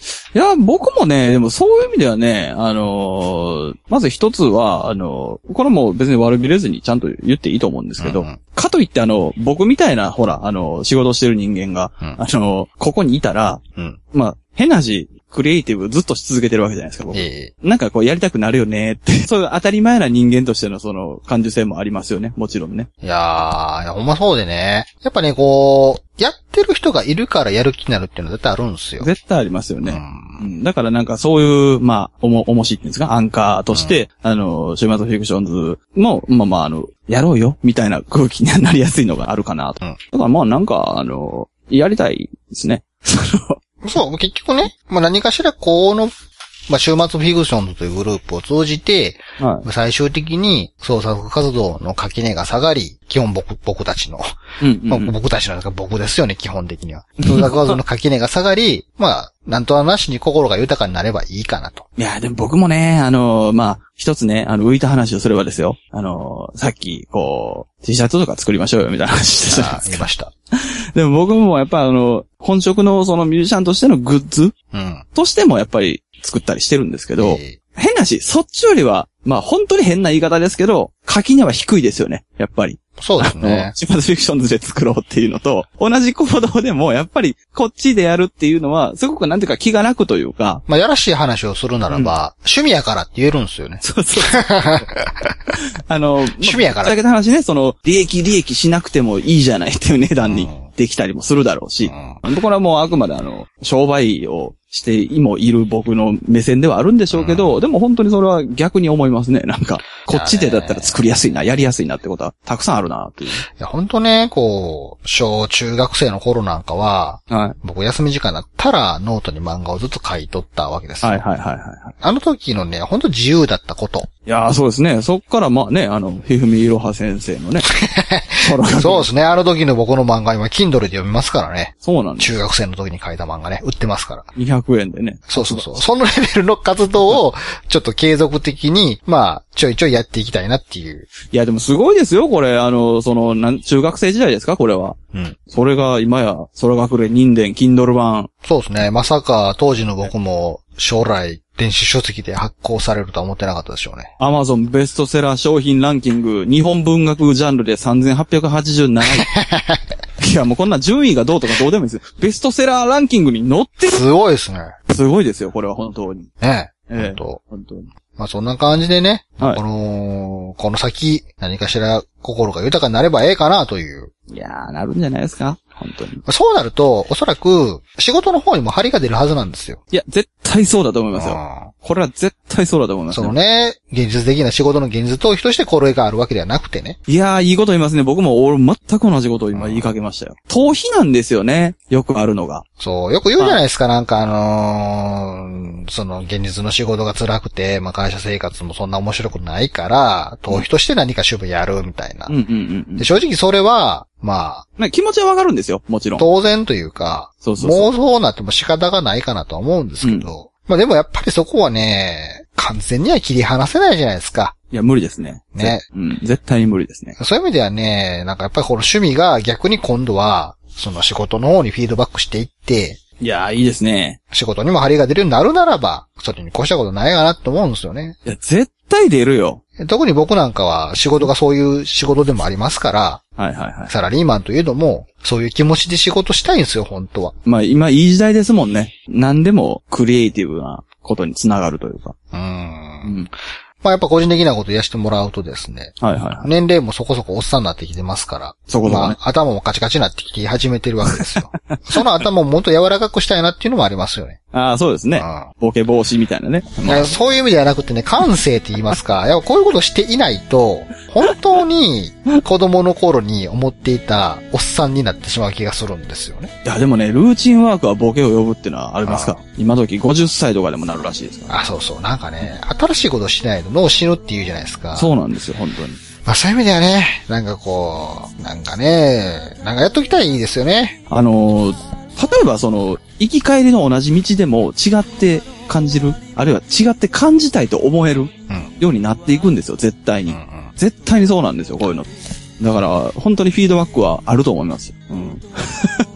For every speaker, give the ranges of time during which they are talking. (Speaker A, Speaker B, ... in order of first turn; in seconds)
Speaker A: 0.3-13.6, 14.1-22.9, 29.0-43.6, 49.4-49.7, 54.6-55.1, 57.2-57.8, 62.0-70.1, 71.0-74.5, 75.1-90.6, 91.9-92.1, 93.8-94.9, 95.5-113.4, 117.3-117.6, 121.0-122.0, 124.3-127.7, 128.4-129.1, 131.8-132.4, 134.4-135.9, 141.3-145.0, 145.5-148.3, 154.2-159.3, 160.2-164.0, 164.9-166.3, 166.9-167.9, 174.3-176.2, 179.9-183.4, 187.1-192.6, 193.4-193.6, 202.3-203.1, 204.8-206.3, 207.4-207.9, 210.0-210.3, 214.7-217.2, 223.2-224.2, 228.2-229.6, 233.4-233.9, 237.4-242.2, 243.0-243.3, 246.0-246.5, 248.7-249.2, 251.1-252.3, 254.5-257.1, 261.2-261.6, 266.6-271.6, 274.9-276.0, 281.1-296.1
Speaker B: 8.0-8.4, 17.1-17.5, 23.0-29.1, 29.8-30.5, 33.7-34.0, 43.8-46.1, 46.7-61.9, 69.5-70.3, 74.7-75.0, 77.2-77.6, 83.0-83.7, 90.7-95.4, 96.4-97.0, 100.2-100.7, 101.8-102.2, 107.1-107.6, 110.1-111.0, 113.5-121.2, 122.0-124.1, 127.7-134.3, 135.3-141.1, 148.4-154.1, 159.0-159.8, 163.8-164.8, 166.4-167.4, 168.2-174.1, 176.3-179.8, 181.2-181.7, 183.1-187.0, 189.5-189.9, 192.8-202.3, 203.0-204.7, 206.2-214.5, 215.6-215.8, 217.2-223.0, 224.3-228.2, 229.8-233.2, 233.9-237.3, 242.3-243.2, 243.8-254.4, 255.2-255.5, 256.8-266.5, 269.1-269.4, 271.5-275.1, 276.2-281.0, 290.3-290.7